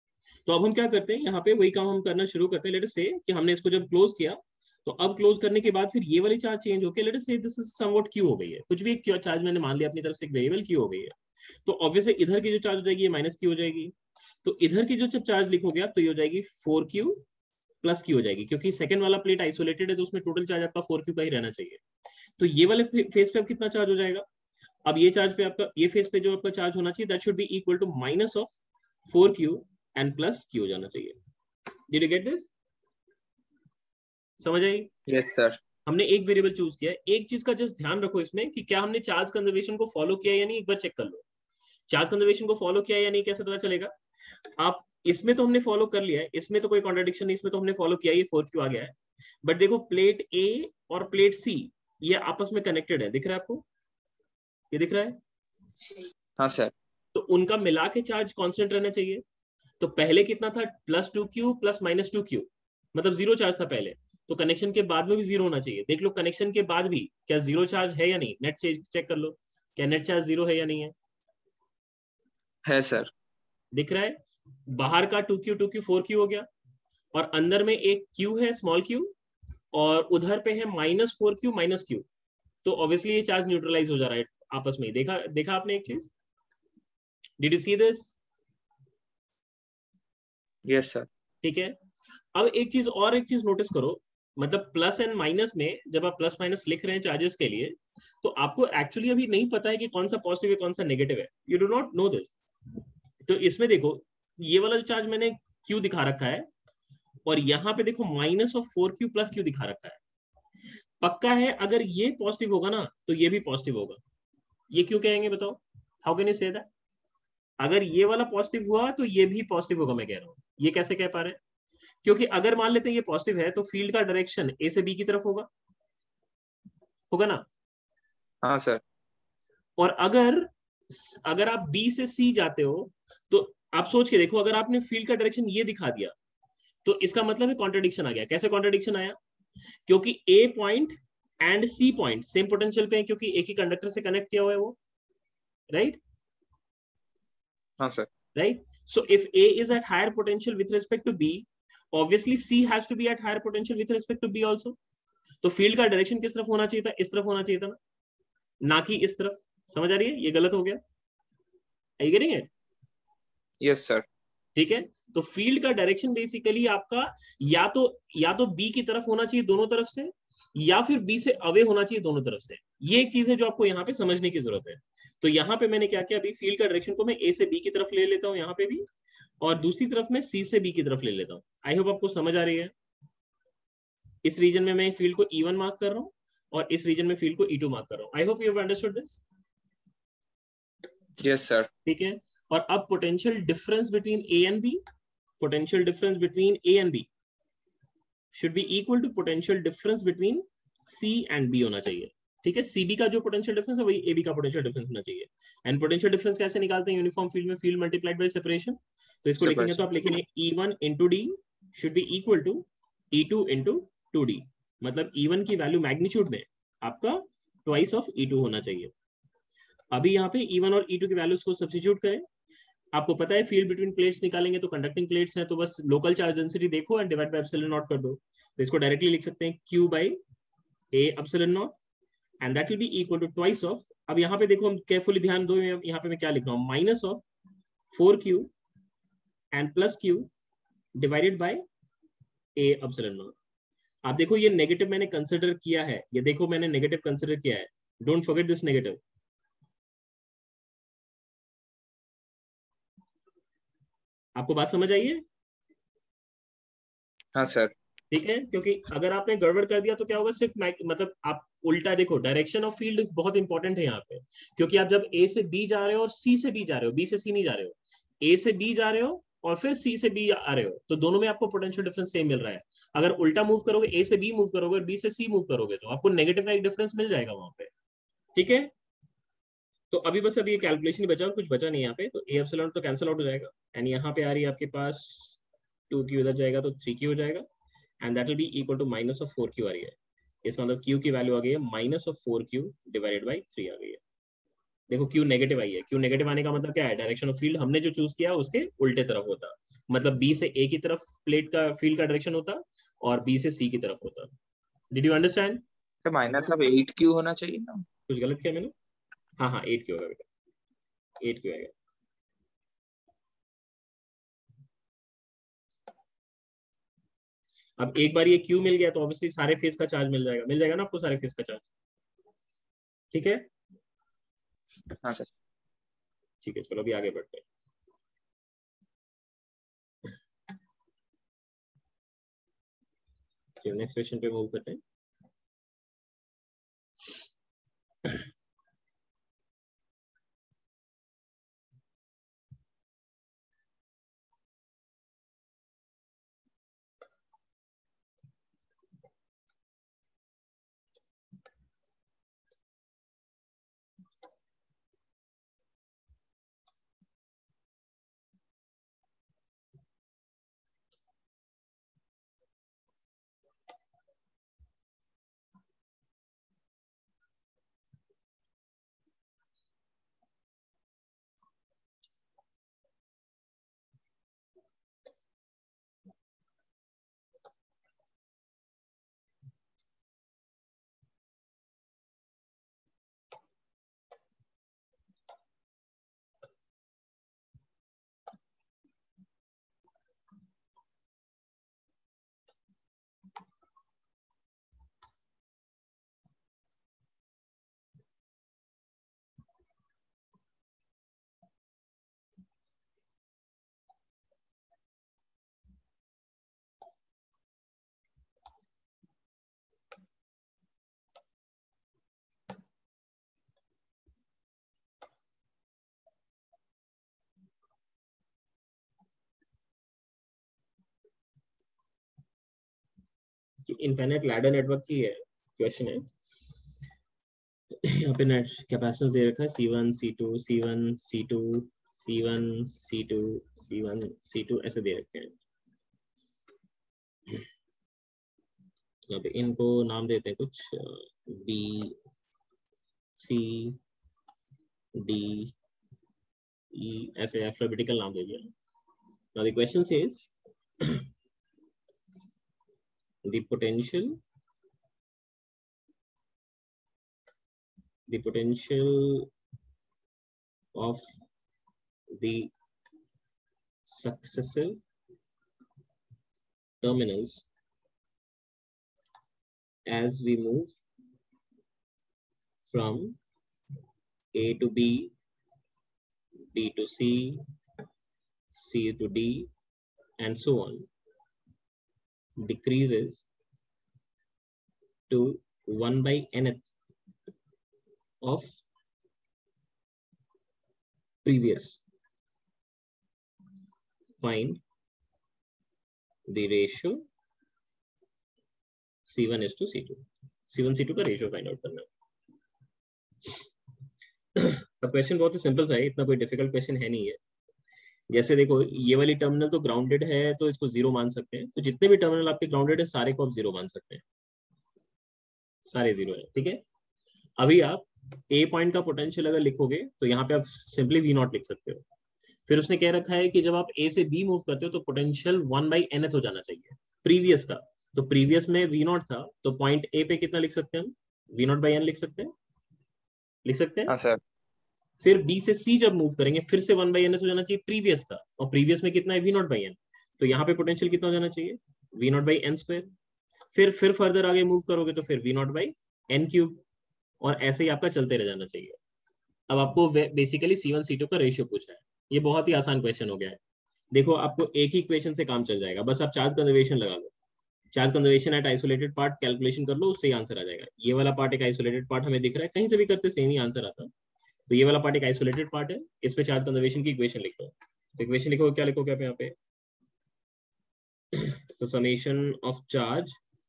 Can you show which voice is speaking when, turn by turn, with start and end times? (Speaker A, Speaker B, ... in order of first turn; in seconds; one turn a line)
Speaker A: 0.5-17.2
Speaker A: 17.8-21.8
Speaker A: 22.4-24.2
Speaker A: 24.8-28.5
Speaker A: 29.1-31.1
Speaker A: 31.9-32.5
Speaker A: 34.4-35.0
Speaker B: 35.1-35.6
Speaker A: 35.9-41.2
Speaker A: 41.9-43.9
Speaker A: 44.6-53.6
Speaker A: 54.7-55.2
Speaker B: 56.4-56.7
Speaker A: 57.1-59.2
Speaker A: 59.8-70.9
Speaker B: 72.7-73.1
Speaker A: 73.7-74.1
Speaker A: 74.7-76.5
Speaker A: 77.1-79.1
Speaker A: 79.7-82.0
Speaker A: 82.6-86.1
Speaker A: 87.4-88.1
Speaker B: 90.7-91.1
Speaker A: 91.4-91.7
Speaker A: 92.3-102.3
Speaker A: 103.2-106.5
Speaker A: 107.2-110.0
Speaker A: 111.0-114.0
Speaker A: 114.7-116.7
Speaker A: 117.6-121.4
Speaker A: 122.0-125.5
Speaker A: 127.1-127.4
Speaker B: 128.4-128.8
Speaker A: 129.8-136.1
Speaker A: 136.8-139.2
Speaker A: 139.9-144.8
Speaker A: 145.7-146.0
Speaker B: 147.8-148.1
Speaker A: 148.3-154.8
Speaker A: 155.4-157.8
Speaker A: 158.6-160.8
Speaker A: 162.0-162.5
Speaker B: 163.6-164.1
Speaker A: 164.6-178.8
Speaker A: 179.4-182.7
Speaker A: 184.2-189.2
Speaker B: 191.2-191.7
Speaker A: 191.8-194.8
Speaker A: 195.4-197.1
Speaker A: 198.3-218.9
Speaker B: 209.4-210.1
Speaker A: 219.9-222.2
Speaker A: 222.9-230.2
Speaker A: 230.9-231.7
Speaker A: 232.4-237.2
Speaker A: 237.9-238.5
Speaker A: 239.5-240.3
Speaker A: 241.0-241.6
Speaker A: 242.6-243.3
Speaker A: 244.0-249.0
Speaker A: 254.3-255.2
Speaker B: 257.3-257.7
Speaker A: 258.1-277.7
Speaker A: 278.3-278.7
Speaker A: 279.9-287.4
Speaker A: 288.0-294.0
Speaker A: 294.9-304.3
Speaker A: 304.9-305.6
Speaker B: 306.0-307.8
Speaker A: 308.1-308.7
Speaker A: 309.4-310.2
Speaker A: 311.2-311.7
Speaker A: 317.8-321.6
Speaker A: 323.1-323.4
Speaker B: 324.9-325.3
Speaker A: 326.4-327.4
Speaker A: 333.6-334.8
Speaker A: 423.6-426.1
Speaker A: 427.8-435.4
Speaker A: 439.1-441.9
Speaker A: 443.1-443.8
Speaker A: 444.9-445.5
Speaker A: 446.7-448.5
Speaker A: 449.3-450.3
Speaker A: 453.2-454.2
Speaker A: 458.1-459.3
Speaker A: 460.7-461.1
Speaker A: 462.1-462.5
Speaker A: 463.8-464.8
Speaker A: 466.8-467.4
Speaker A: 469.9-470.8
Speaker A: 472.6-473.2
Speaker A: 474.3-475.1
Speaker A: 476.5-477.4
Speaker A: 478.5-479.5
Speaker A: 480.2-480.9
Speaker A: 482.4-483.2
Speaker A: 485.1-486.7
Speaker A: 488.2-488.6
Speaker A: 491.2-491.8
Speaker A: 494.2-494.6
Speaker A: 496.3-497.0
Speaker A: 499.0-501.9
Speaker A: 504.4-507.2
Speaker A: 508.1-514.0
Speaker A: 515.6-516.6
Speaker A: 517.4-521.8
Speaker A: 522.5-532.3
Speaker A: 533.4-533.9
Speaker B: 533.9-534.2
Speaker A: 535.0-542.9
Speaker A: 543.5-546.6
Speaker A: 547.2-548.8
Speaker A: 549.5-553.4
Speaker A: 553.9-557.1
Speaker A: 557.7-563.9
Speaker A: 564.5-569.3
Speaker A: 571.1-573.1